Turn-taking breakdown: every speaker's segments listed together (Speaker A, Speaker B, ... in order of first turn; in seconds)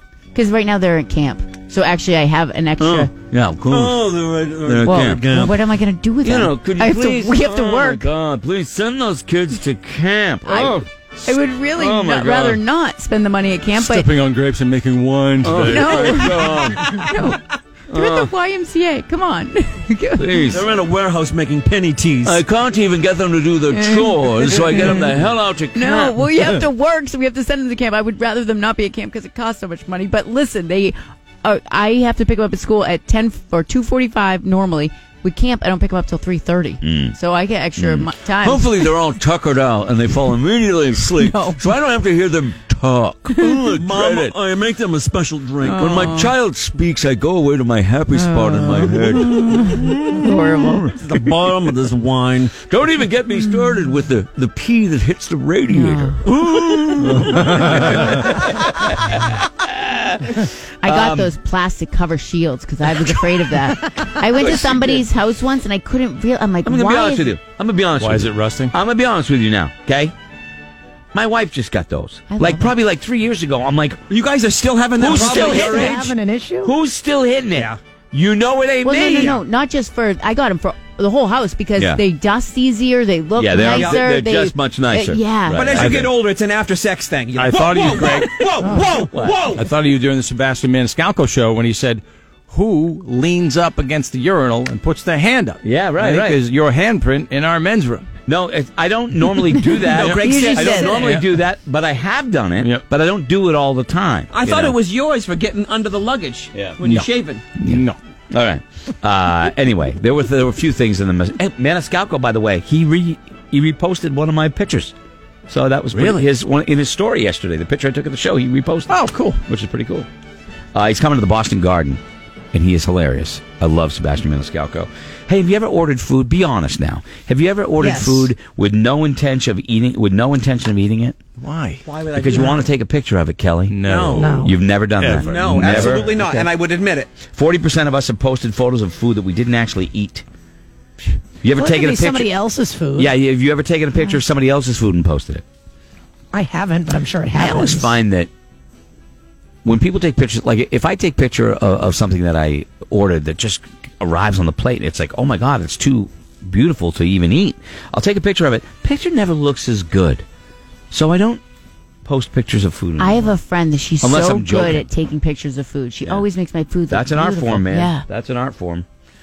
Speaker A: 0.3-3.1, 4.8-8.1, 10.4-14.1, 15.6-20.5, 23.7-25.0, 25.7-38.9, 41.2-41.6, 45.6-46.3, 48.1-50.9, 55.7-56.2, 60.8-67.3, 72.3-72.7, 78.8-85.7, 100.1-100.9, 163.0-168.1
Speaker B: 2.8-5.3, 6.2-12.6, 15.4-17.1, 17.9-18.3, 20.2-20.7, 22.2-26.2, 36.8-37.2, 37.8-44.4, 45.7-50.9, 52.6-61.3, 64.4-64.7, 66.6-70.1, 71.1-74.0, 75.0-76.1, 76.6-79.4, 81.8-82.0, 83.4-86.1, 89.1-89.4, 95.6-96.4, 98.3-104.8, 108.3-114.9, 115.5-120.1, 120.8-122.0, 122.5-131.2, 132.1-136.1, 137.3-140.2, 141.4-142.3, 143.0-145.4, 147.3-148.3, 149.7-160.2, 160.9-161.4, 162.1-163.4, 164.0-164.9, 166.9-168.9
Speaker C: 3.7-5.6, 16.1-17.1, 20.5-22.4, 43.8-46.0, 50.9-52.5, 74.1-76.1, 77.5-77.8, 79.1-79.4, 83.7-84.0, 85.5-89.6, 99.9-101.0, 104.3-107.4, 131.8-132.6, 133.8-134.4, 135.1-137.1
Speaker D: 13.7-16.5, 57.2-58.2, 68.0-68.7, 85.8-86.1, 87.3-88.9, 89.5-98.0, 100.0-101.3, 106.8-108.0, 115.9-116.3, 131.4-131.8, 133.7-136.3
Speaker E: 75.1-76.8, 119.0-119.4, 127.8-128.3, 134.2-134.6, 141.5-143.1, 146.3-147.9